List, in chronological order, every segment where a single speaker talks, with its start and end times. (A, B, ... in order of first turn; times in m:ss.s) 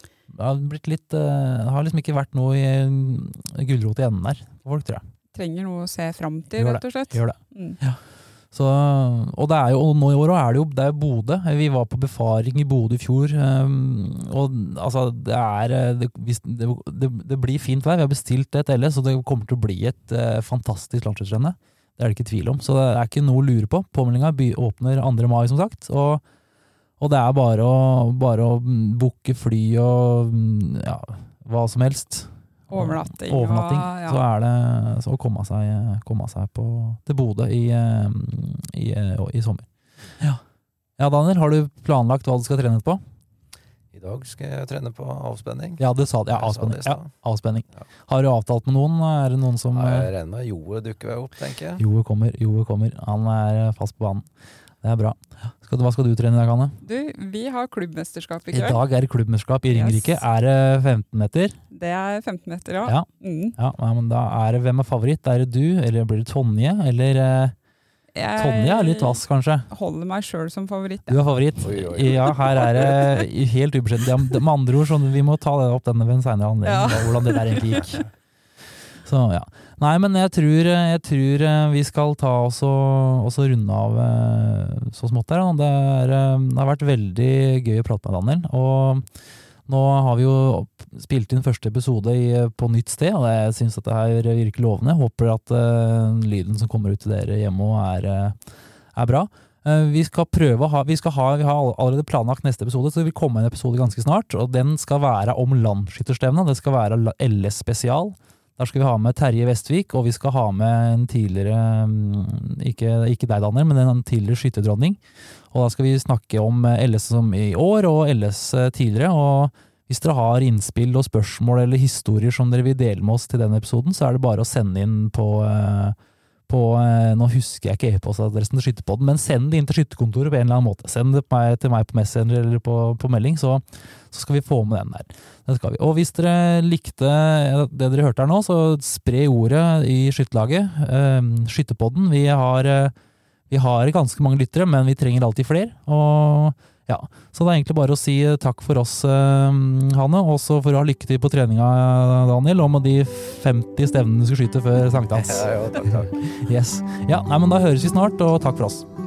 0:00.3-0:05.0 A
0:05.3-0:07.8 B
0:06.6-0:26.2 A
0:27.0-0:40.4 A
0:32.7-0:34.2 B
0:41.0-0:43.0 A
0:43.9-0:47.1 C
0:45.8-0:50.1 A
0:49.7-0:51.8 C
0:51.8-0:54.3 A
0:54.8-0:56.8 A
0:56.8-0:58.8 B
0:58.5-1:01.6 A
0:59.7-1:00.2 B
1:01.7-1:03.6 B
1:02.9-1:07.6 A
1:08.2-1:11.4 B
1:08.4-1:09.7 A
1:11.1-1:18.0 A
1:11.6-1:13.2 C
1:16.6-1:18.0 B
1:19.0-1:55.0 A
1:55.5-2:06.0 A
2:06.5-2:23.0 A
2:23.5-2:38.8 A
2:35.2-2:36.2 C